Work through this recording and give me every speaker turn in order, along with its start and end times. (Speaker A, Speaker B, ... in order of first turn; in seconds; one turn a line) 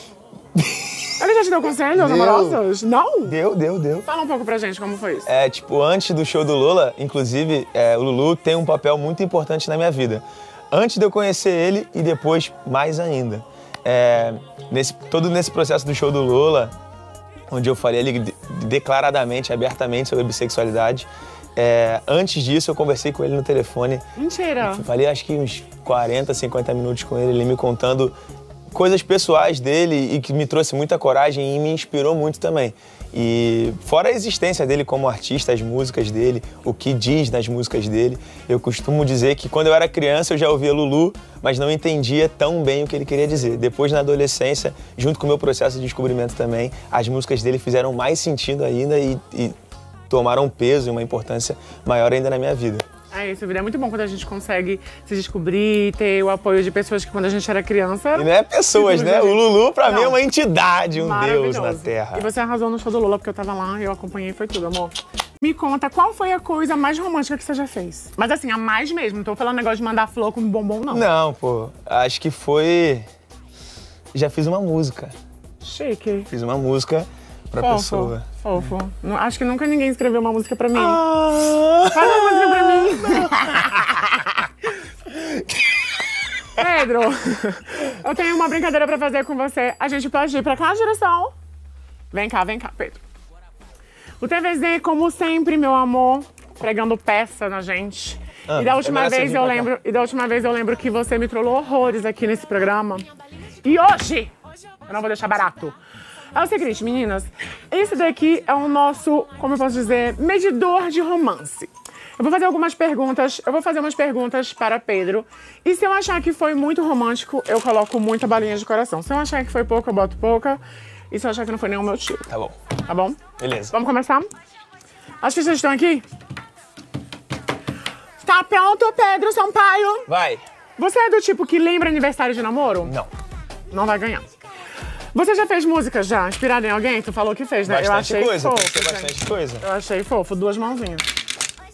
Speaker A: 0.6-0.9
Speaker B: 1.2-3.4
Speaker A: 1.9-2.6
Speaker A: 3.2-4.1
Speaker B: 4.1-5.3
Speaker A: 5.3-16.7
Speaker A: 17.5-24.1
Speaker B: 24.2-24.9
Speaker A: 24.6-28.1
Speaker A: 28.7-49.5
Speaker A: 50.1-52.9
Speaker B: 53.1-60.2
Speaker A: 58.1-62.3
Speaker B: 61.0-71.1
Speaker A: 70.9-73.0
Speaker A: 74.1-75.1
Speaker B: 75.6-76.3
Speaker A: 76.3-78.2
Speaker B: 77.6-81.0
Speaker A: 80.8-83.8
Speaker B: 81.9-84.2
Speaker A: 85.1-85.7
Speaker B: 86.6-91.3
Speaker B: 92.1-93.0
Speaker B: 94.2-103.1
Speaker A: 98.5-99.7
Speaker B: 103.6-104.3
Speaker B: 104.9-105.8
Speaker B: 106.3-122.3
Speaker A: 122.3-122.5
Speaker B: 122.9-124.3
Speaker A: 123.4-123.8
Speaker B: 125.2-126.0
Speaker B: 128.2-130.1
Speaker A: 130.1-130.4
Speaker B: 130.8-132.9
Speaker B: 133.7-134.3
Speaker B: 135.1-141.1
Speaker A: 137.7-139.7